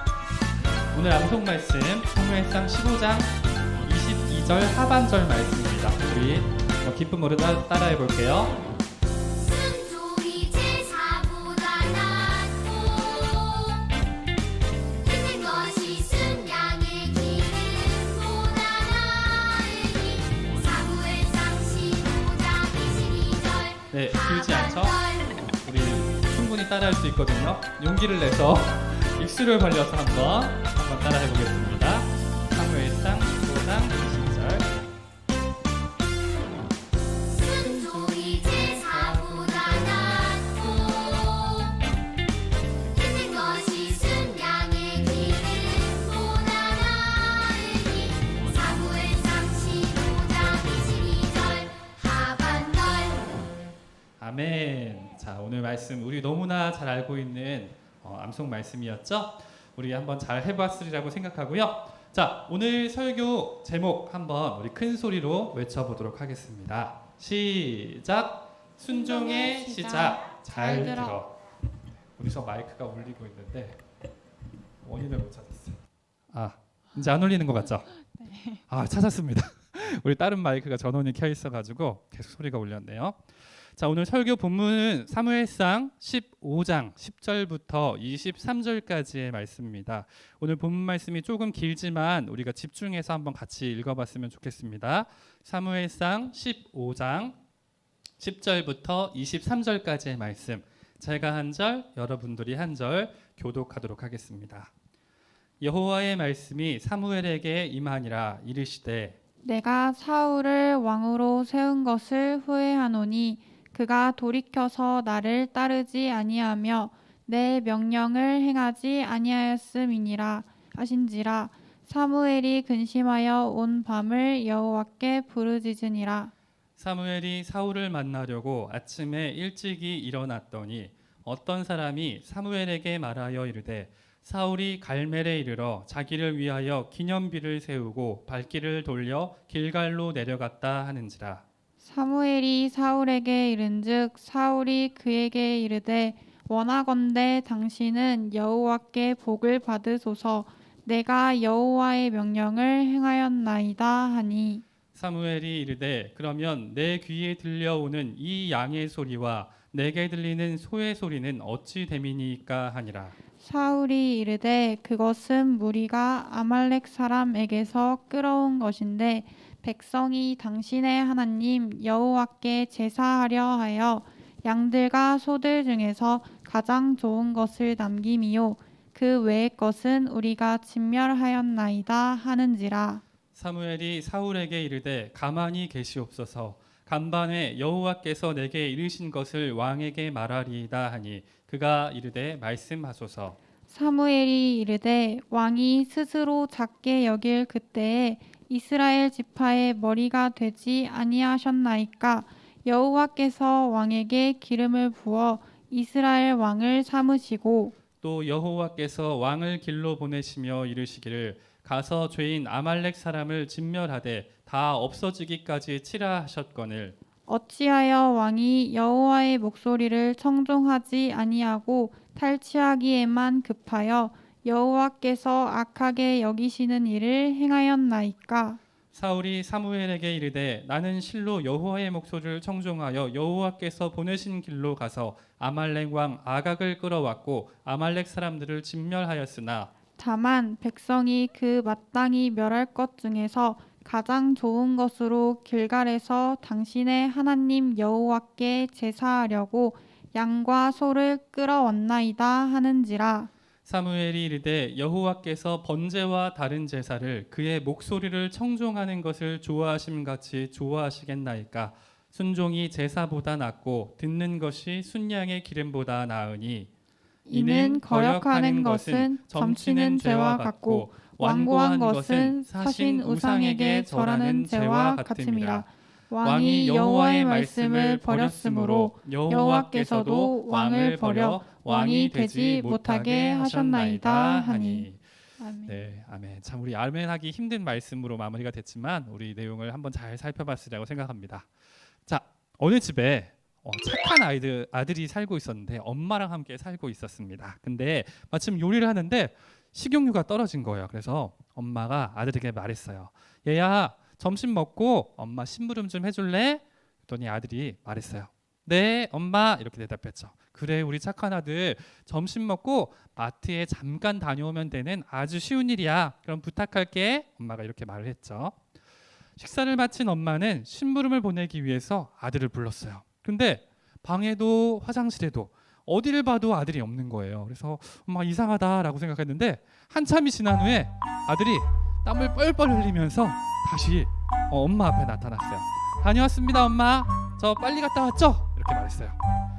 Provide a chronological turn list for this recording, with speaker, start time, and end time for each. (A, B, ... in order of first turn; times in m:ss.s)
0:00.9-0:08.6 A
0:09.4-0:13.8 B
0:15.0-0:25.4 B
0:23.9-0:25.0 A
0:25.5-0:34.7 A
0:37.4-0:41.8 B
0:37.5-0:40.4 A
0:42.9-0:53.4 B
0:54.2-1:11.3 A
1:08.8-1:11.2 C
1:12.1-1:13.8 A
1:14.8-1:17.9 A
1:18.2-1:18.6 C
1:18.7-1:37.4 A
1:38.2-1:44.7 A
1:45.6-1:49.2 A
1:49.4-2:06.3 C
2:06.8-2:21.4 A
2:21.8-2:34.6 C
2:34.9-2:43.1 A
2:43.4-3:03.0 C
3:03.3-3:13.4 A
3:13.7-3:27.7 C
3:28.0-3:37.0 A
3:37.3-3:48.6 C
3:48.9-3:59.7 A
4:00.0-4:13.3 C
4:13.6-4:26.7 A
4:27.3-4:44.9 C
4:27.3-4:35.7 A
4:36.2-4:45.0 A
4:45.4-4:45.8 C
4:45.6-4:51.5 A
4:52.0-5:18.6 A
5:19.4-5:39.2 A